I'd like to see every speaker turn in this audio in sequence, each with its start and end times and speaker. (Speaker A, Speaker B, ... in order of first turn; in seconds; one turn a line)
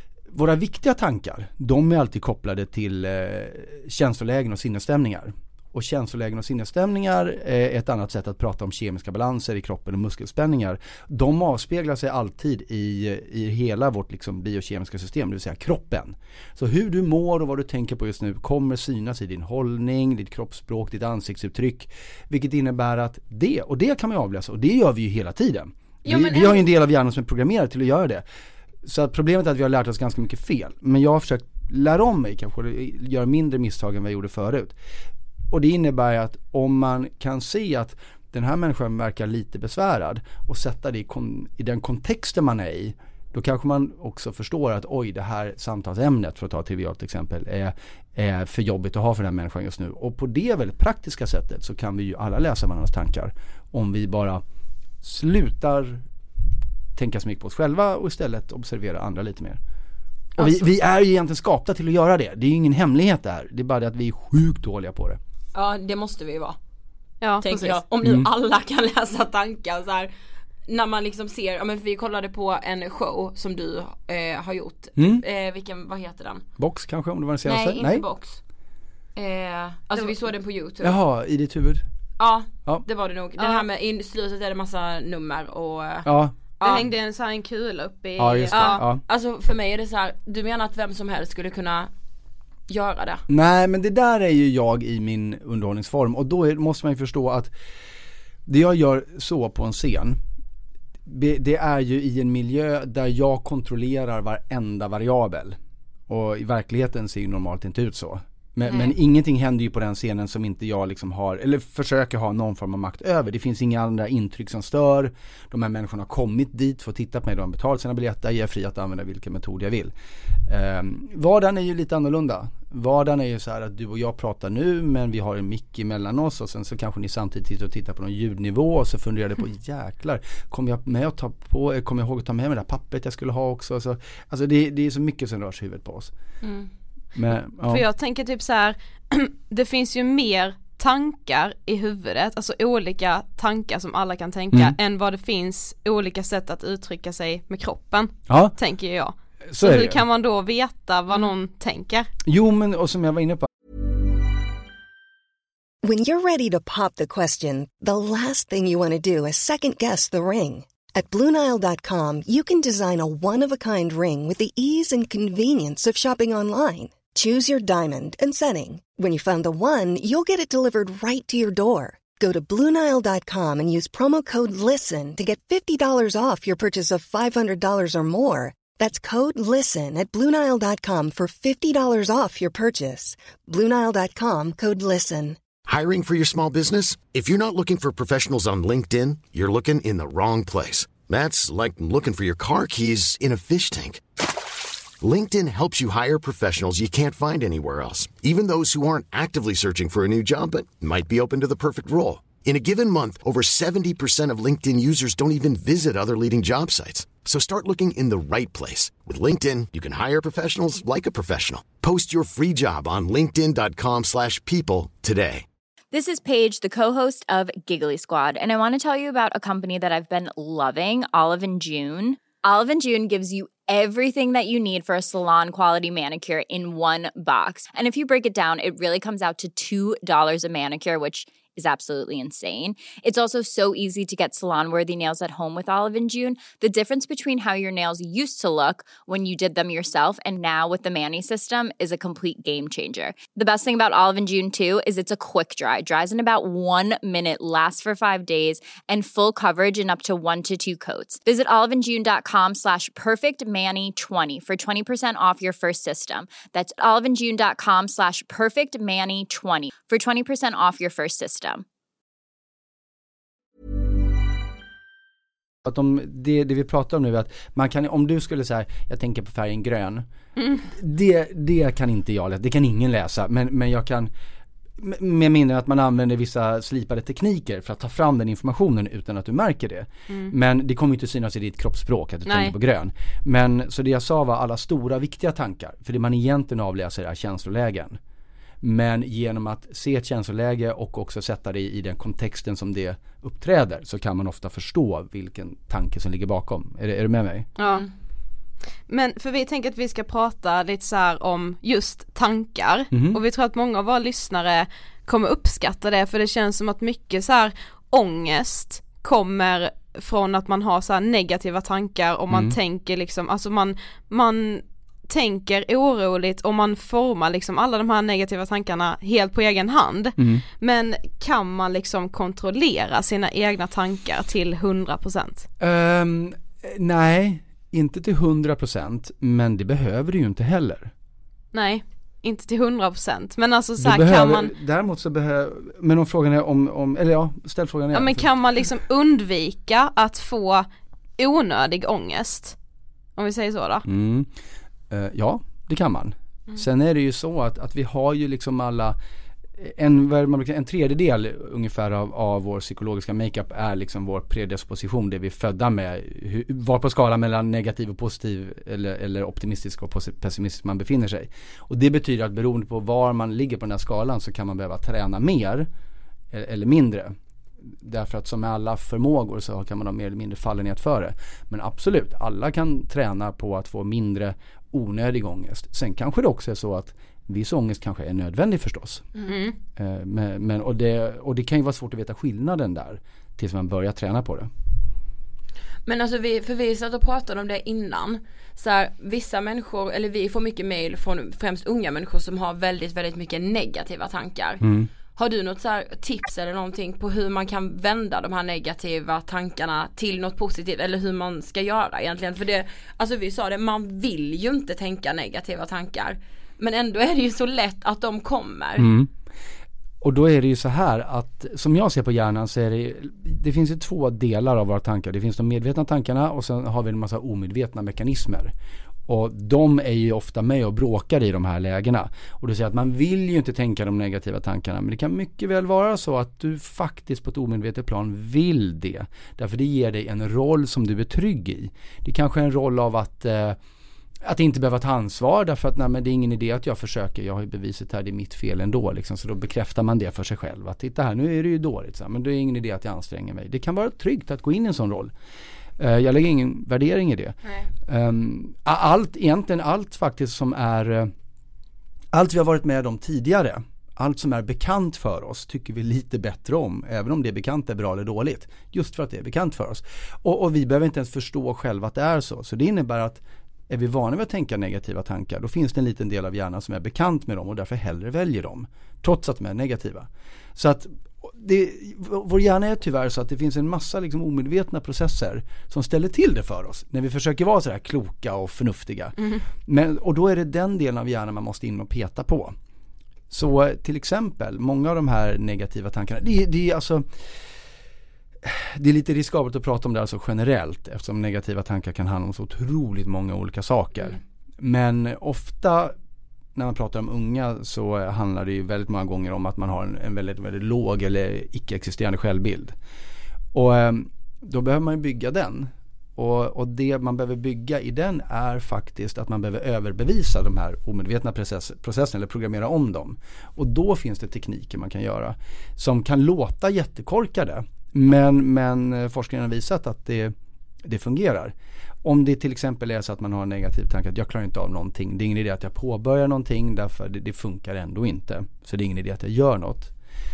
Speaker A: 0.3-28.2
Speaker B: 26.1-26.6
Speaker A: 28.8-34.8
Speaker A: 35.5-54.4
Speaker A: 55.0-56.0
Speaker A: 57.0-59.6
Speaker A: 60.4-65.2
Speaker B: 65.5-66.6
Speaker C: 67.2-67.8
Speaker B: 67.4-70.1
Speaker A: 68.0-68.3
Speaker B: 70.7-76.4
Speaker A: 75.0-75.2
Speaker A: 76.6-78.0
Speaker B: 77.5-78.4
Speaker B: 79.2-80.9
Speaker A: 80.8-81.8
Speaker B: 82.2-86.9
Speaker C: 83.4-83.6
Speaker A: 86.0-86.8
Speaker C: 86.6-88.8
Speaker A: 88.2-89.0
Speaker B: 88.5-91.9
Speaker B: 92.7-93.2
Speaker A: 93.3-97.5
Speaker A: 98.5-100.2
Speaker A: 101.0-119.9
Speaker A: 120.5-136.1
Speaker B: 136.4-136.7
Speaker A: 137.1-137.8
Speaker C: 137.7-152.1
Speaker A: 144.5-144.8
Speaker A: 148.3-148.5
Speaker A: 149.5-150.0
Speaker A: 152.2-153.5
Speaker D: 155.8-185.4
Speaker E: 185.7-194.0
Speaker E: 195.0-215.4
Speaker F: 215.9-261.6
Speaker A: 265.6-270.1
Speaker C: 270.4-270.6
Speaker A: 270.7-274.1
Speaker A: 274.8-288.0
Speaker C: 280.1-280.3
Speaker C: 282.3-282.5
Speaker A: 288.6-297.5
Speaker C: 297.6-297.9
Speaker C: 298.9-325.5
Speaker A: 302.9-303.2
Speaker A: 312.3-312.6
Speaker A: 320.2-320.4
Speaker A: 325.6-330.9
Speaker C: 331.5-334.5
Speaker A: 333.8-338.3
Speaker C: 337.9-340.7
Speaker C: 341.2-342.6
Speaker C: 343.2-343.9
Speaker A: 343.9-344.3
Speaker A: 344.9-349.0
Speaker A: 349.6-365.7
Speaker A: 366.3-379.1
Speaker C: 379.2-379.5
Speaker A: 379.8-384.5
Speaker B: 385.9-394.6
Speaker A: 394.6-394.9
Speaker B: 395.1-408.9
Speaker A: 408.8-409.1
Speaker A: 410.0-418.5
Speaker A: 419.1-433.6
Speaker A: 434.2-445.1
Speaker A: 445.8-451.1
Speaker A: 452.1-482.5
Speaker A: 483.3-487.2
Speaker A: 488.4-495.9
Speaker A: 496.5-502.8
Speaker A: 503.5-529.9